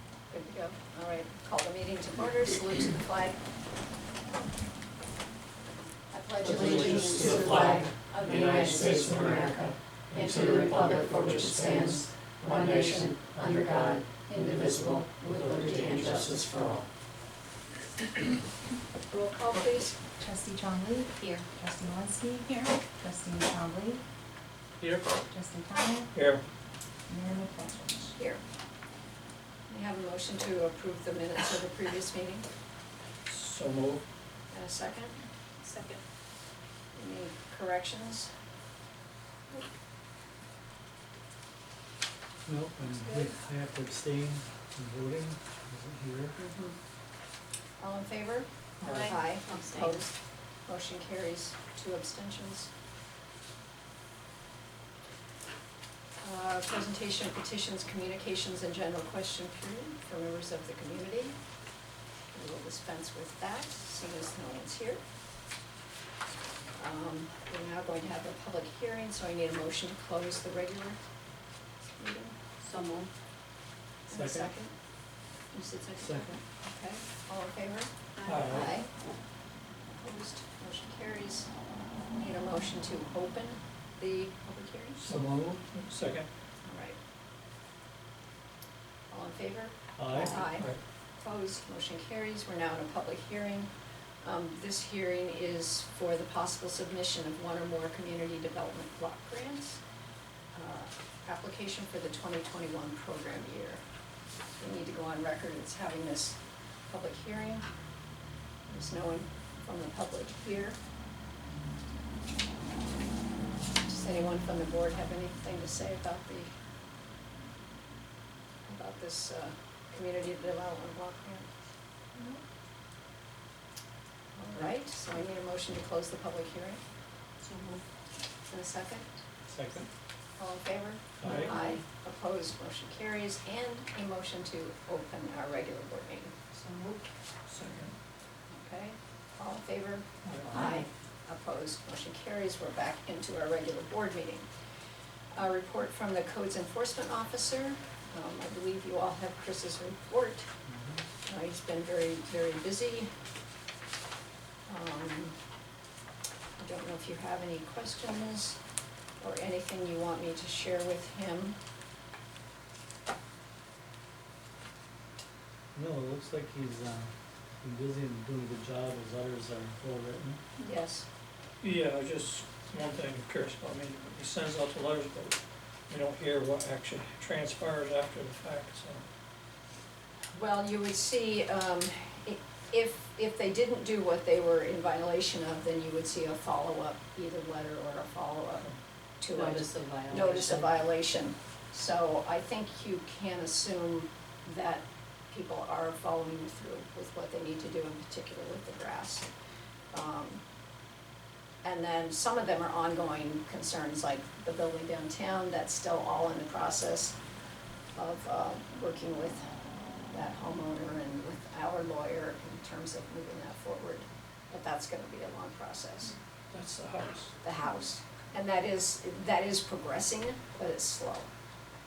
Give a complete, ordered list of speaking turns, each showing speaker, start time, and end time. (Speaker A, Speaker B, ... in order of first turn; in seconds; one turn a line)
Speaker A: 0.3-3.4
Speaker B: 6.1-16.8
Speaker C: 6.4-16.6
Speaker D: 6.7-7.8
Speaker D: 8.9-9.4
Speaker A: 19.1-20.0
Speaker B: 20.2-24.0
Speaker C: 24.8-25.2
Speaker B: 25.3-26.1
Speaker C: 26.1-26.4
Speaker B: 27.1-28.1
Speaker A: 29.7-32.5
Speaker C: 33.3-34.0
Speaker A: 34.5-35.2
Speaker D: 35.7-35.9
Speaker A: 36.9-38.3
Speaker E: 42.5-46.4
Speaker A: 42.9-43.4
Speaker A: 46.4-46.8
Speaker A: 47.8-50.1
Speaker C: 48.8-49.2
Speaker D: 49.0-49.9
Speaker A: 50.7-52.7
Speaker A: 56.2-61.4
Speaker A: 62.3-65.0
Speaker A: 66.8-71.0
Speaker A: 72.0-72.4
Speaker D: 72.6-73.1
Speaker A: 74.1-74.7
Speaker E: 74.1-74.5
Speaker A: 75.5-78.9
Speaker E: 76.0-76.4
Speaker C: 78.2-78.7
Speaker A: 80.0-81.5
Speaker A: 82.1-85.0
Speaker E: 85.0-85.6
Speaker C: 85.0-86.3
Speaker A: 86.6-87.0
Speaker A: 89.1-93.7
Speaker E: 90.0-90.5
Speaker C: 90.5-90.8
Speaker A: 94.2-99.8
Speaker A: 100.5-103.8
Speaker A: 104.6-107.7
Speaker A: 108.7-110.8
Speaker A: 113.8-116.5
Speaker A: 118.7-121.5
Speaker A: 124.3-126.8
Speaker D: 127.4-127.8
Speaker A: 128.5-129.2
Speaker E: 129.5-129.9
Speaker A: 130.4-136.3
Speaker E: 131.2-131.5
Speaker C: 131.2-131.5
Speaker D: 136.5-137.1
Speaker C: 137.5-137.9
Speaker A: 138.5-144.5
Speaker C: 140.2-140.6
Speaker A: 145.3-150.5
Speaker E: 150.7-151.0
Speaker A: 151.2-153.1
Speaker A: 154.7-155.4
Speaker A: 156.6-158.6
Speaker A: 159.2-161.6
Speaker E: 165.7-170.4
Speaker A: 170.6-171.1
Speaker C: 171.6-179.1
Speaker A: 180.3-188.7
Speaker A: 189.2-199.3
Speaker D: 189.4-190.6
Speaker B: 190.2-190.6
Speaker A: 199.9-200.4
Speaker A: 201.6-207.2
Speaker A: 208.0-209.4
Speaker A: 210.1-216.2
Speaker C: 216.5-217.4
Speaker A: 217.4-221.3